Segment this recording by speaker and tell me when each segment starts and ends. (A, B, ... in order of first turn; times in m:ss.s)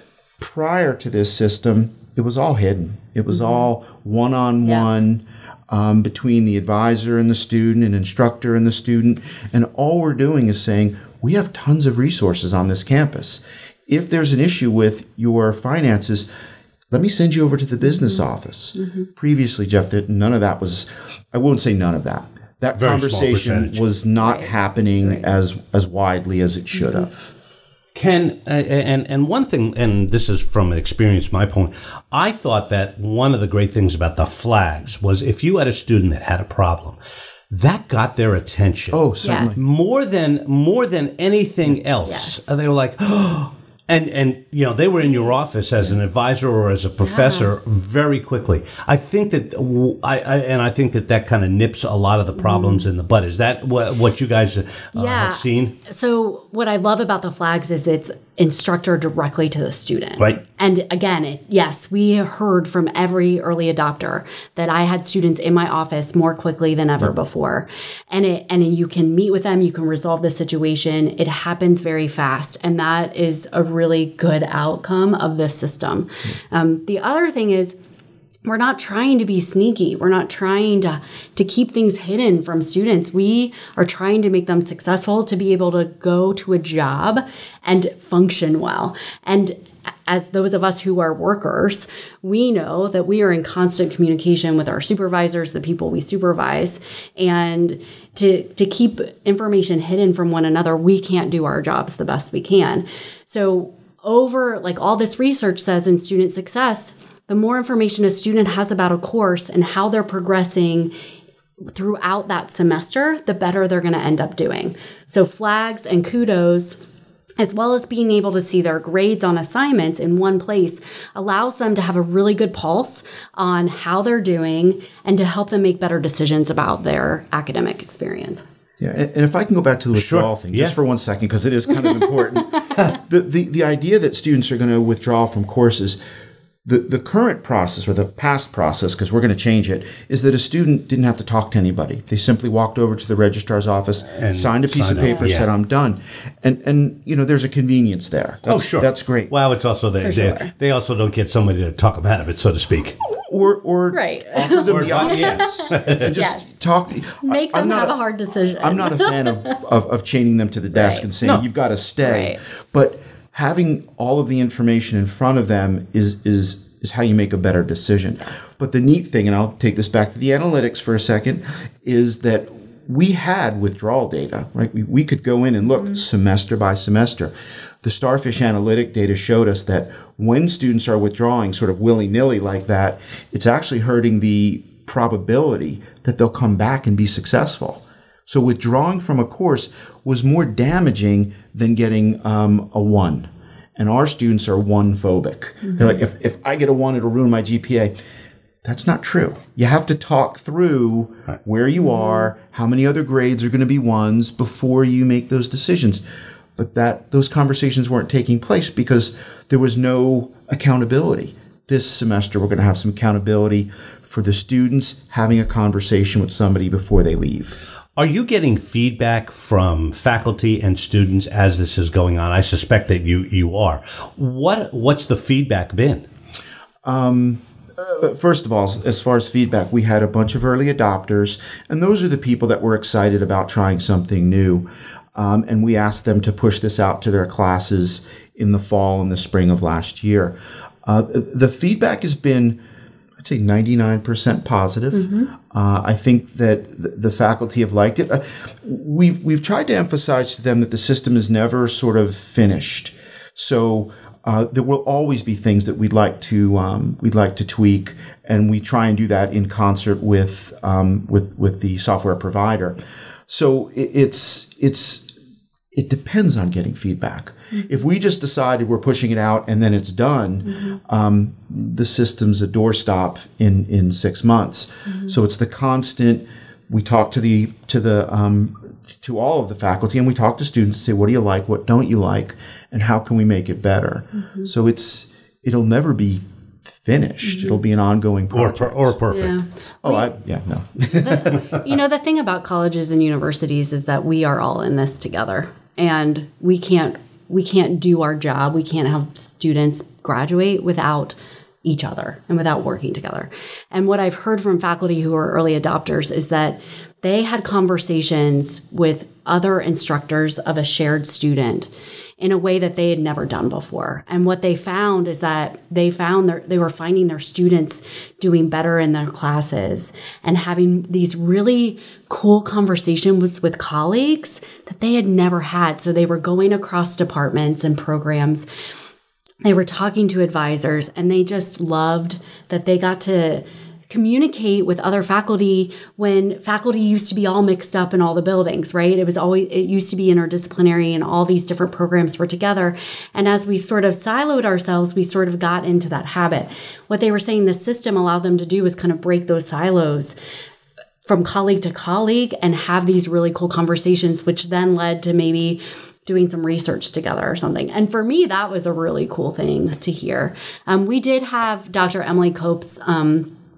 0:00.4-0:16.3 A
0:03.3-0:03.7 B
0:04.6-0:04.9 B
0:16.9-0:27.3 A
0:17.8-0:18.2 B
0:18.8-0:19.1 B
0:22.8-0:23.9 C
0:24.2-0:25.4 B
0:26.8-0:27.1 B
0:28.0-0:37.0 C
0:37.5-0:39.0 C
0:38.9-0:39.7 A
0:39.2-0:39.5 B
0:39.6-0:55.8 C
0:42.1-0:42.5 B
0:45.0-0:46.0 B
0:47.0-0:47.5 B
0:52.4-0:52.9 B
0:55.0-1:17.8 B
1:18.4-1:50.9 B
1:51.6-1:56.8 B
1:57.4-2:08.4 B
2:08.8-2:16.0 A
2:09.9-2:10.8 C
2:16.6-2:29.3 A
2:24.1-2:25.5 C
2:25.0-2:25.3 B
2:28.5-2:33.0 C
2:30.0-2:30.5 B
2:33.3-2:38.0 A
2:33.9-2:36.5 B
2:34.6-2:36.1 C
2:37.2-2:39.5 B
2:38.6-2:57.3 A
2:40.7-2:41.1 B
2:42.0-2:42.4 B
2:57.8-3:18.0 A
3:18.6-3:26.0 A
3:21.8-3:22.3 B
3:26.6-3:37.6 A
3:38.0-3:46.1 C
3:46.8-4:02.6 A
4:03.2-4:22.8 A
4:04.9-4:05.3 B
4:23.3-4:25.1 A
4:25.7-4:49.0 A
4:34.9-4:35.2 B
4:44.2-4:44.5 B
4:47.2-4:47.6 B
4:48.3-4:49.4 C
4:49.1-4:50.1 B
4:49.8-4:51.5 A
4:50.9-5:28.5 B
5:29.4-5:50.2 B
5:51.0-6:03.3 B